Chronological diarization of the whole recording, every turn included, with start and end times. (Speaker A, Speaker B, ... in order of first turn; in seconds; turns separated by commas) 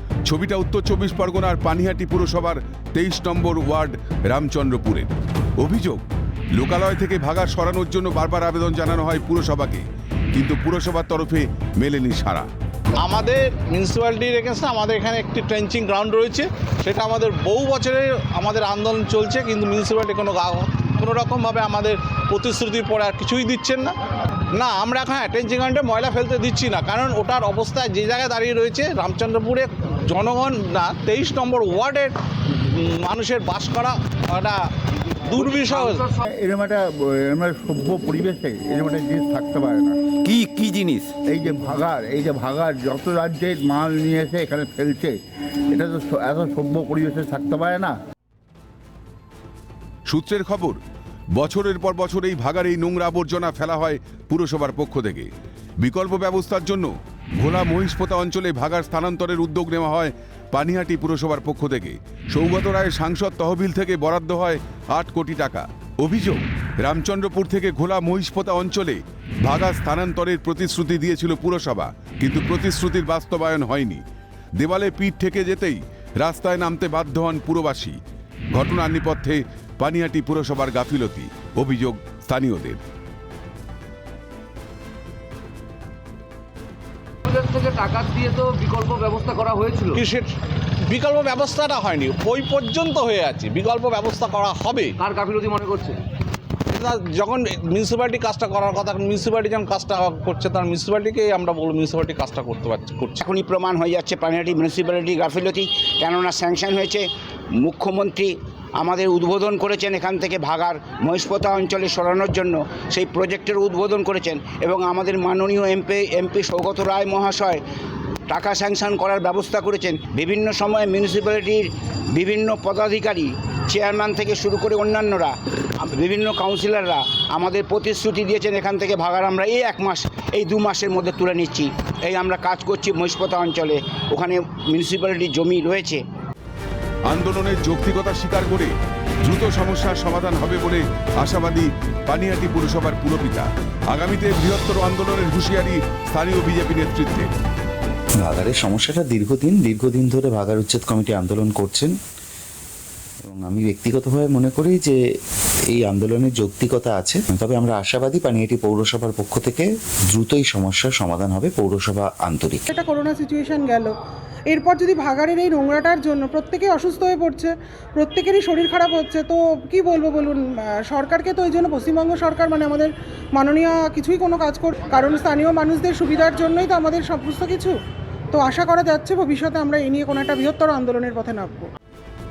Speaker A: 0.3-6.0, Speaker A: 6.5-12.5, Speaker B: 13.0-23.9, Speaker B: 24.5-34.6, Speaker B: 35.2-36.0, Speaker C: 35.4-36.2, Speaker D: 36.2-40.0, Speaker D: 41.2-45.1, Speaker D: 45.7-47.9, Speaker A: 50.1-50.8, Speaker A: 51.4-55.3, Speaker A: 55.8-74.0, Speaker A: 74.6-78.0, Speaker A: 78.5-82.8, Speaker C: 87.2-90.0, Speaker B: 90.0-90.3, Speaker B: 90.9-94.9, Speaker C: 95.0-96.0, Speaker B: 96.7-103.2, Speaker E: 103.2-107.1, Speaker E: 107.6-117.6, Speaker E: 118.3-136.0, Speaker A: 137.1-138.7, Speaker A: 139.2-147.3, Speaker F: 148.2-151.9, Speaker F: 153.2-155.0, Speaker F: 155.7-162.7, Speaker G: 162.7-163.9, Speaker G: 164.5-177.8, Speaker G: 178.3-181.7